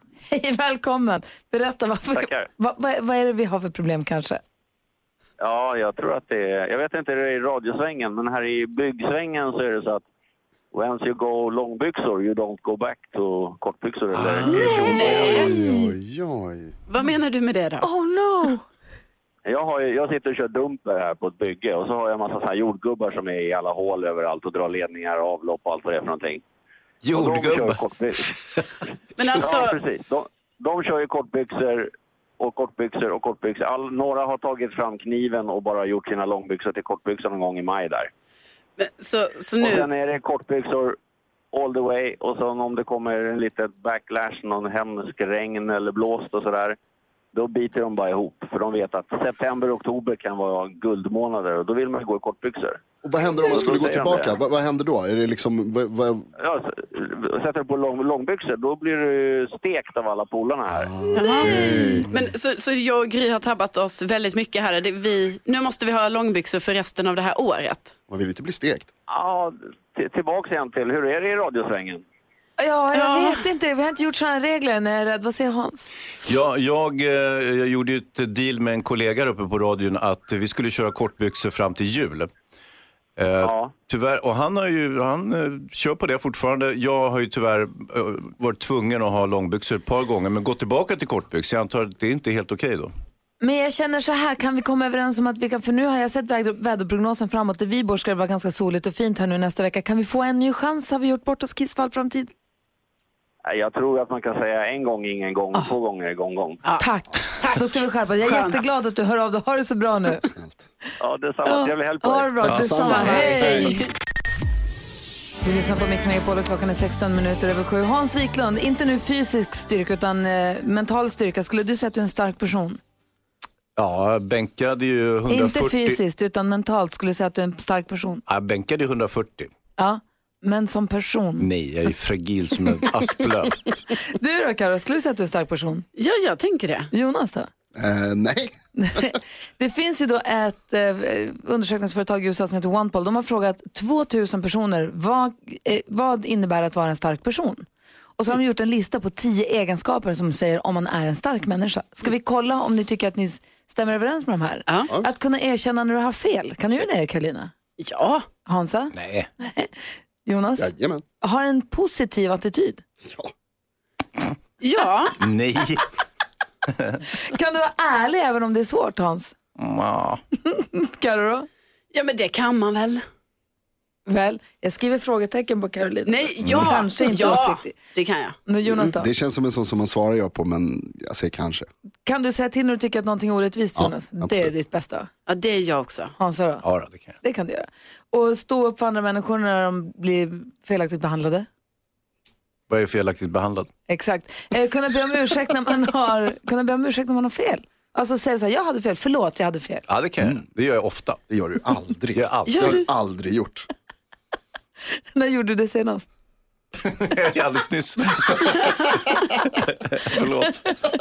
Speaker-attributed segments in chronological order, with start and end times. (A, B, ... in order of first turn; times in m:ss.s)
0:00.3-0:04.4 A
0:02.1-0:02.5 B
0:05.4-0:10.0 B
0:10.7-0:15.4 B
0:14.2-0:14.5 C
0:14.6-0:16.7 D
0:14.7-0:15.9 A
0:14.8-0:15.5 E
0:16.9-0:17.9 E
0:17.8-0:18.6 A
0:19.4-0:26.4 B
0:27.0-0:27.8 C
0:27.1-0:28.3 B
0:29.2-0:29.8 E
0:29.3-0:38.1 B
0:38.8-0:39.9 E
0:39.6-0:41.0 B
0:41.5-0:46.8 B
0:47.3-0:52.8 B
0:53.0-0:56.3 D
0:53.4-0:54.4 B
0:56.4-1:01.0 B
1:00.7-1:02.1 D
1:01.1-1:07.9 E
1:08.1-1:08.9 D
1:09.1-1:12.0 B
1:12.6-1:15.9 A
1:12.9-1:13.4 E
1:16.2-1:22.3 C
1:23.2-1:32.9 C
1:23.4-1:23.7 B
1:33.4-1:42.3 A
1:43.4-1:46.6 B
1:46.6-1:48.6 E
1:46.8-1:50.3 A
1:50.2-1:50.6 D
1:51.0-1:53.3 B
1:51.4-1:53.9 A
1:52.4-1:53.7 D
1:52.5-1:53.7 C
1:55.4-2:02.8 A
2:03.8-2:06.0 C
2:05.3-2:08.2 A
2:08.3-2:09.5 C
2:09.8-2:11.5 A
2:11.4-2:13.6 C
2:14.0-2:15.9 A
2:16.0-2:16.9 E
2:16.9-2:17.5 A
2:17.7-2:19.1 D
2:18.8-2:27.7 A
2:28.2-2:37.5 A
2:34.7-2:34.9 E
2:34.9-2:35.1 D
2:37.8-2:38.3 E
2:38.4-2:39.7 A
2:38.9-2:39.3 C
2:40.2-2:42.8 A
2:40.6-2:41.0 D
2:43.0-2:43.3 D
2:44.6-2:45.2 E
2:45.2-2:45.8 C
2:46.7-2:47.0 C
2:47.2-2:49.3 A
2:49.6-2:50.2 C
2:50.4-2:51.5 A
2:51.9-2:53.0 E
2:54.0-2:57.8 A
2:56.0-2:58.8 E
2:58.4-2:59.1 A
2:58.9-3:01.7 D
3:02.0-3:05.1 A
3:03.8-3:04.5 D
3:05.3-3:06.1 E
3:06.2-3:06.6 A
3:06.6-3:07.1 C
3:07.2-3:11.5 A
3:12.7-3:13.7 C
3:13.9-3:19.8 A
3:19.9-3:21.2 C
3:21.3-3:23.7 D
3:22.1-3:22.8 C
3:22.5-3:22.8 E
3:25.1-3:26.1 A
3:26.8-3:30.7 C